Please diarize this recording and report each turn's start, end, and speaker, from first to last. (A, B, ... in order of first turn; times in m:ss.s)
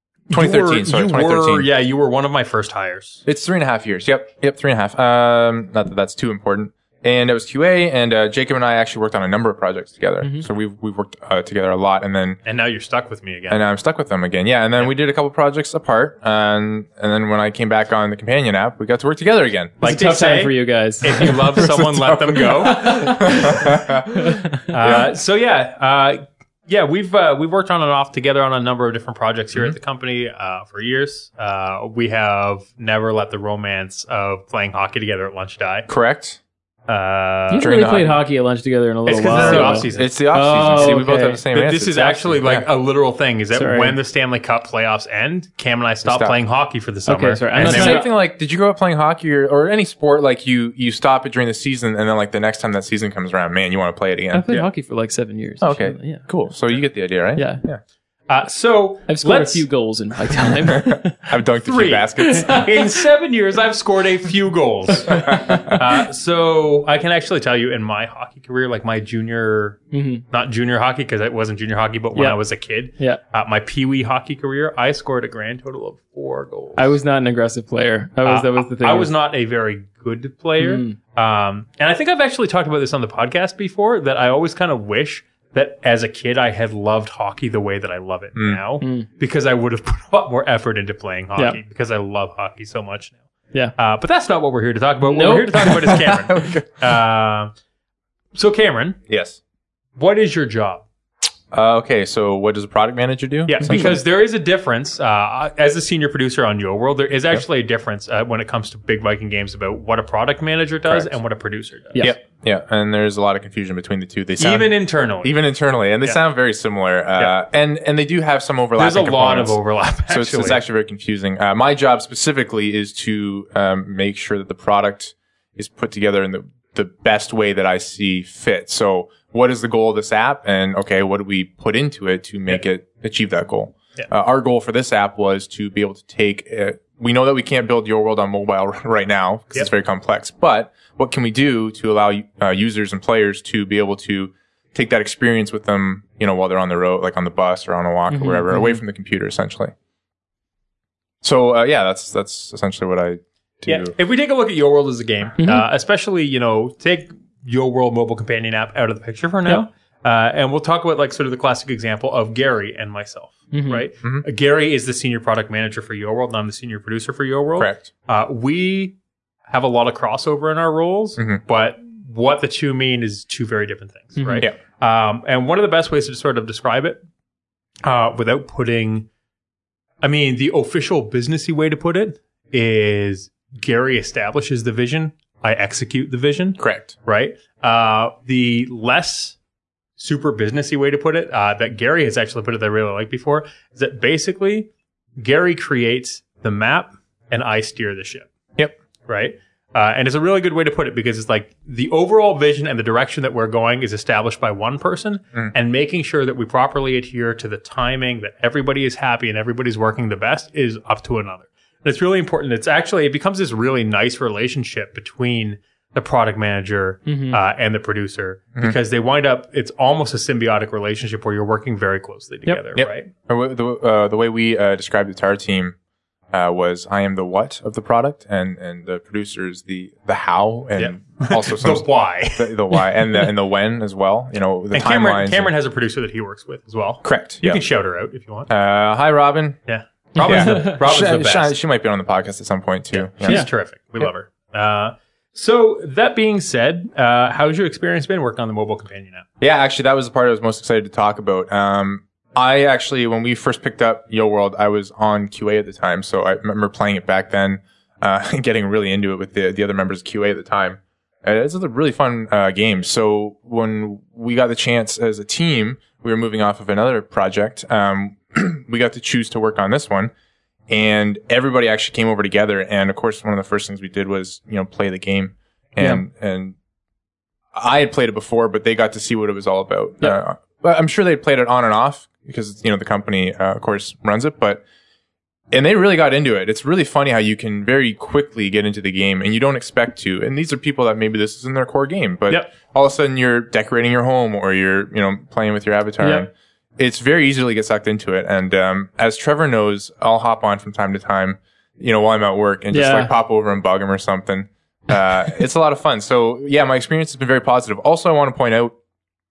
0:00.3-0:03.2 A
0:00.3-0:01.7 B
0:03.2-0:12.4 B
0:12.4-0:13.6 A
0:13.5-0:19.8 B
0:19.8-0:23.3 A
0:19.8-0:21.7 C
0:21.2-0:25.1 B
0:22.6-0:24.7 C
0:24.7-0:35.9 A
0:35.9-0:36.4 B
0:36.9-0:37.7 A
0:37.5-0:41.4 C
0:37.6-0:38.2 B
0:39.0-0:40.1 A
0:39.1-0:42.7 B
0:41.5-0:48.1 A
0:43.5-0:44.0 C
0:46.0-0:46.4 B
0:47.0-0:48.1 C
0:47.6-0:54.7 B
0:54.3-0:56.3 C
0:55.6-0:57.8 B
0:57.4-0:57.6 C
0:58.3-0:59.7 A
0:59.1-1:01.2 C
1:00.6-1:02.6 B
1:01.6-1:17.0 A
1:02.2-1:02.9 C
1:05.1-1:05.7 C
1:05.1-1:05.8 B
1:09.9-1:10.2 C
1:12.1-1:12.4 C
1:16.8-1:19.1 C
1:18.2-1:33.2 A
1:20.6-1:21.0 C
1:28.3-1:28.6 B
1:28.8-1:29.1 C
1:33.8-1:37.5 A
1:35.0-1:35.9 C
1:35.9-1:36.6 B
1:38.3-1:39.0 A
1:39.1-1:39.4 B
1:40.0-1:40.8 A
1:41.5-1:44.0 B
1:43.5-1:52.0 A
1:43.6-1:43.9 C
1:50.9-1:51.2 B
1:52.0-2:29.7 B
1:54.4-1:55.4 A
1:58.8-2:00.6 A
2:28.1-2:28.8 C
2:31.2-2:33.9 B
2:33.6-2:49.0 A
2:35.4-2:35.6 C
2:43.5-2:43.8 C
2:47.6-2:47.9 B
2:49.5-2:57.0 A
2:54.2-2:54.4 C
2:57.8-2:59.1 A
3:00.0-3:09.3 A
3:06.6-3:06.9 B
3:10.0-3:18.3 A
3:19.1-3:43.1 A
3:37.0-3:37.4 C
3:42.8-3:45.7 B
3:46.3-3:55.5 B
3:50.8-3:52.9 A
3:54.7-3:58.5 A
3:57.0-3:57.6 B
3:58.5-3:59.6 B
3:59.7-4:01.5 A
4:00.2-4:00.8 C
4:00.2-4:03.5 B
4:02.9-4:09.2 A
4:09.4-4:30.1 B
4:30.7-4:36.5 B
4:37.5-4:44.6 B
4:45.5-5:08.8 B
4:56.0-4:56.3 C
5:02.7-5:03.1 C